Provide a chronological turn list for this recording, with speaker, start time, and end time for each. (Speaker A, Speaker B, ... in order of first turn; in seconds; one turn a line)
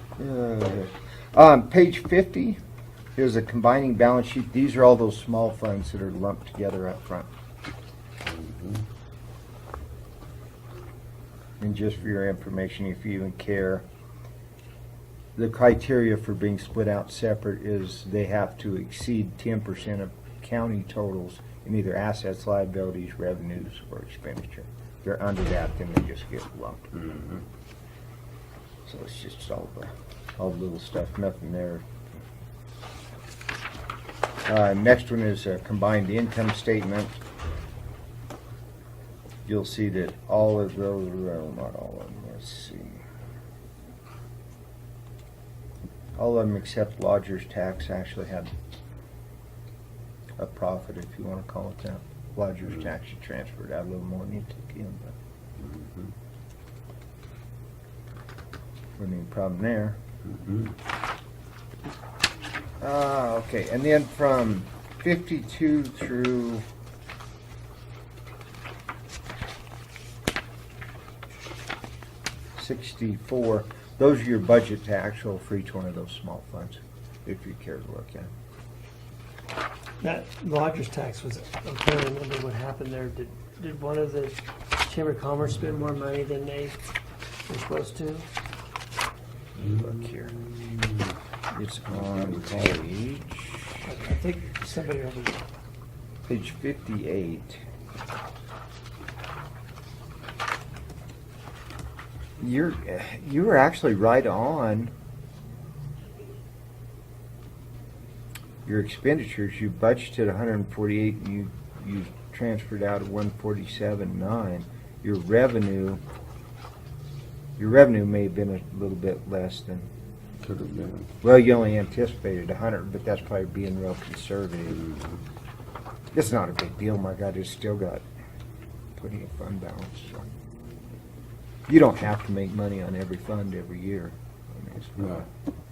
Speaker A: 0.2-2.6
Speaker A: 3.2-7.3
Speaker B: 8.2-8.8
Speaker A: 11.6-13.8
Speaker A: 15.3-26.9
Speaker B: 26.9-27.4
Speaker A: 28.8-31.9
Speaker A: 34.5-37.2
Speaker A: 39.4-43.0
Speaker A: 46.1-48.5
Speaker A: 50.4-55.1
Speaker B: 55.6-56.1
Speaker A: 59.0-60.0
Speaker B: 60.2-60.7
Speaker A: 62.8-66.6
Speaker A: 72.5-78.3
Speaker C: 80.0-86.8
Speaker C: 87.5-88.2
Speaker A: 89.6-90.4
Speaker B: 89.6-91.1
Speaker A: 91.5-93.9
Speaker B: 91.9-92.8
Speaker C: 93.8-95.4
Speaker A: 96.3-97.6
Speaker A: 102.4-104.9
Speaker A: 108.6-116.0
Speaker A: 117.6-119.9
Speaker B: 120.4-121.1
Speaker A: 121.2-124.9
Speaker B: 124.7-125.2
Speaker A: 126.1-128.0
Speaker A: 128.9-130.3
Speaker A: 131.7-135.3
Speaker B: 135.0-135.2